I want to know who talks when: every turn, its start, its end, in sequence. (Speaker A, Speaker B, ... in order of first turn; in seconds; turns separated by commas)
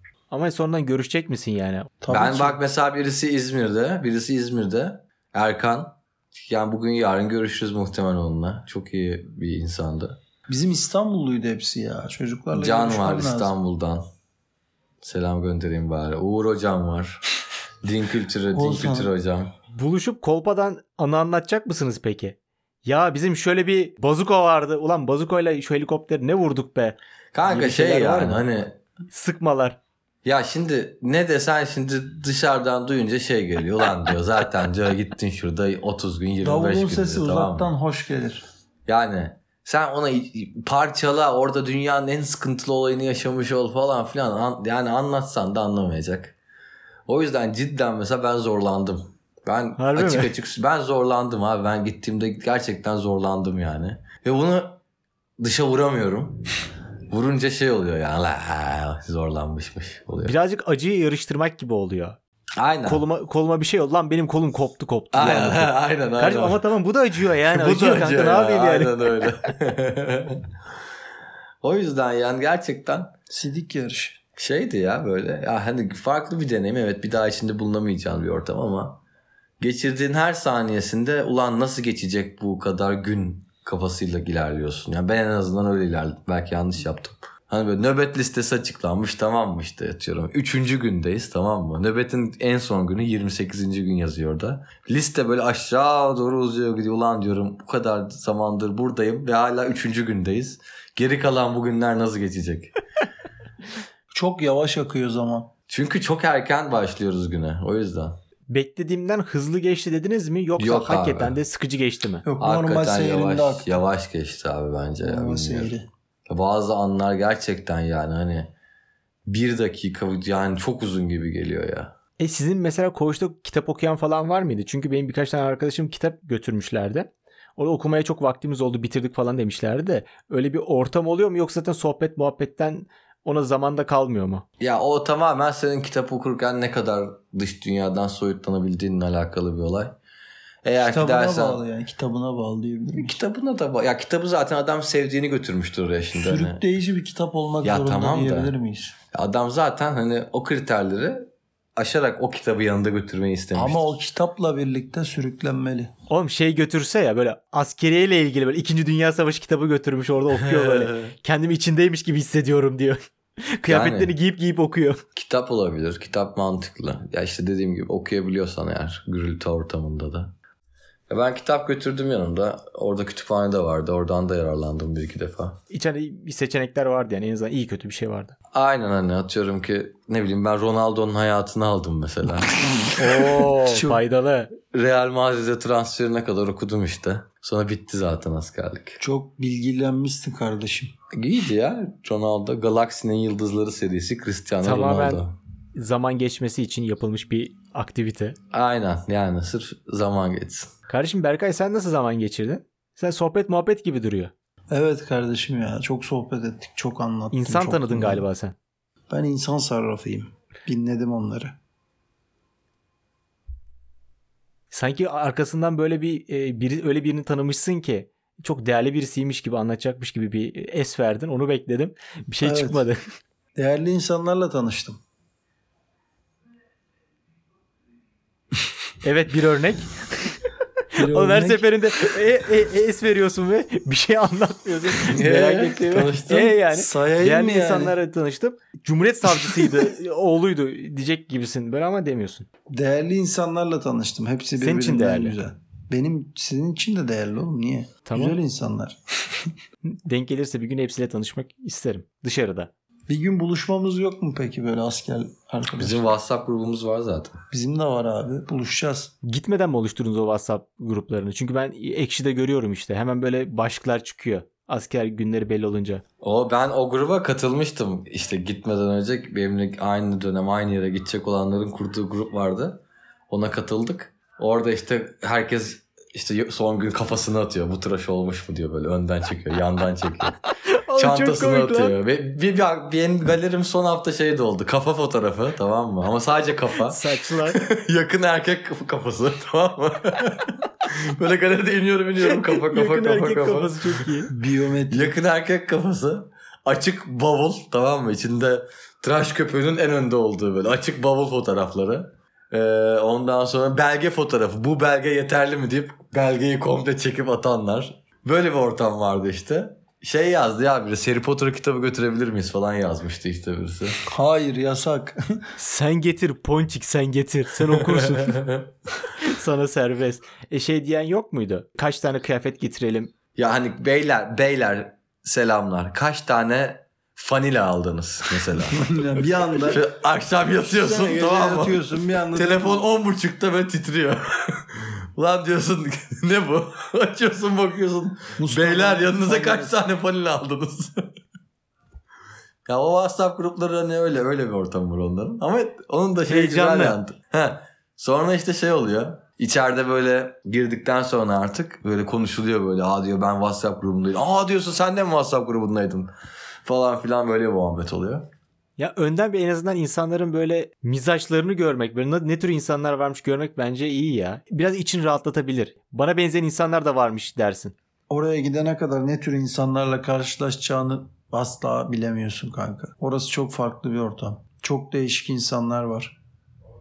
Speaker A: 0.3-1.9, Speaker B: 2.0-2.6, Speaker C: 2.1-10.2, Speaker B: 10.5-13.6, Speaker C: 12.5-14.0, Speaker C: 15.0-17.2, Speaker C: 17.8-19.5, Speaker B: 18.5-19.1, Speaker A: 19.7-28.5, Speaker C: 27.3-28.8, Speaker A: 29.1-29.8, Speaker C: 30.2-37.7, Speaker B: 36.4-38.4, Speaker C: 38.9-46.4, Speaker C: 47.1-54.8, Speaker A: 49.8-50.3, Speaker C: 55.4-56.5, Speaker C: 57.1-60.3, Speaker A: 60.2-62.2, Speaker C: 62.6-63.0, Speaker A: 62.9-69.3, Speaker C: 65.1-66.6, Speaker C: 67.5-70.4, Speaker C: 71.6-73.1, Speaker B: 73.3-74.2, Speaker C: 74.4-79.0, Speaker C: 79.6-102.8, Speaker B: 104.1-105.5, Speaker C: 105.7-108.2, Speaker A: 108.5-112.2, Speaker C: 110.6-111.4, Speaker B: 112.2-113.8, Speaker C: 112.4-115.7, Speaker B: 115.0-115.8, Speaker C: 116.3-118.5, Speaker C: 119.3-121.9, Speaker A: 122.2-134.4, Speaker C: 134.6-140.0, Speaker C: 140.6-141.6, Speaker B: 140.8-143.2, Speaker C: 143.0-146.6, Speaker B: 146.1-148.9, Speaker C: 147.6-148.5, Speaker C: 149.1-153.8, Speaker B: 153.5-155.9, Speaker A: 156.1-165.0, Speaker C: 160.4-161.1, Speaker C: 163.7-164.1, Speaker C: 165.2-170.3, Speaker C: 171.1-175.6, Speaker A: 175.7-178.3, Speaker C: 178.5-182.6, Speaker A: 183.0-184.5, Speaker B: 183.6-184.0, Speaker C: 184.7-189.0, Speaker B: 189.0-190.9, Speaker C: 191.1-195.3, Speaker A: 194.6-195.2, Speaker A: 195.8-198.4, Speaker C: 198.5-200.7, Speaker A: 200.9-204.3, Speaker B: 204.7-208.2, Speaker A: 207.3-208.6, Speaker B: 209.1-211.6, Speaker A: 214.7-223.0, Speaker B: 222.4-222.9, Speaker B: 223.6-225.0, Speaker A: 229.0-230.4, Speaker A: 230.9-242.5, Speaker B: 231.0-231.7, Speaker C: 235.0-236.6, Speaker B: 236.7-238.0, Speaker B: 242.7-249.5, Speaker A: 244.6-245.4, Speaker A: 248.1-248.4, Speaker A: 249.8-252.7, Speaker B: 253.1-256.1, Speaker C: 255.8-257.4, Speaker B: 257.5-259.1, Speaker A: 259.2-266.0, Speaker C: 266.2-280.4, Speaker A: 280.6-281.9, Speaker C: 281.0-294.1, Speaker A: 286.9-287.6, Speaker A: 292.2-294.3, Speaker B: 294.3-295.2, Speaker C: 294.9-314.0, Speaker B: 314.1-315.2, Speaker A: 315.6-318.5, Speaker C: 317.8-318.6, Speaker A: 319.1-323.1, Speaker C: 323.4-328.8, Speaker B: 328.6-329.9, Speaker C: 329.6-331.8, Speaker B: 330.6-332.8, Speaker C: 332.3-341.1, Speaker B: 338.4-339.8, Speaker C: 342.6-356.1, Speaker A: 346.3-347.0, Speaker C: 356.6-358.3, Speaker A: 358.8-367.8, Speaker B: 368.1-376.2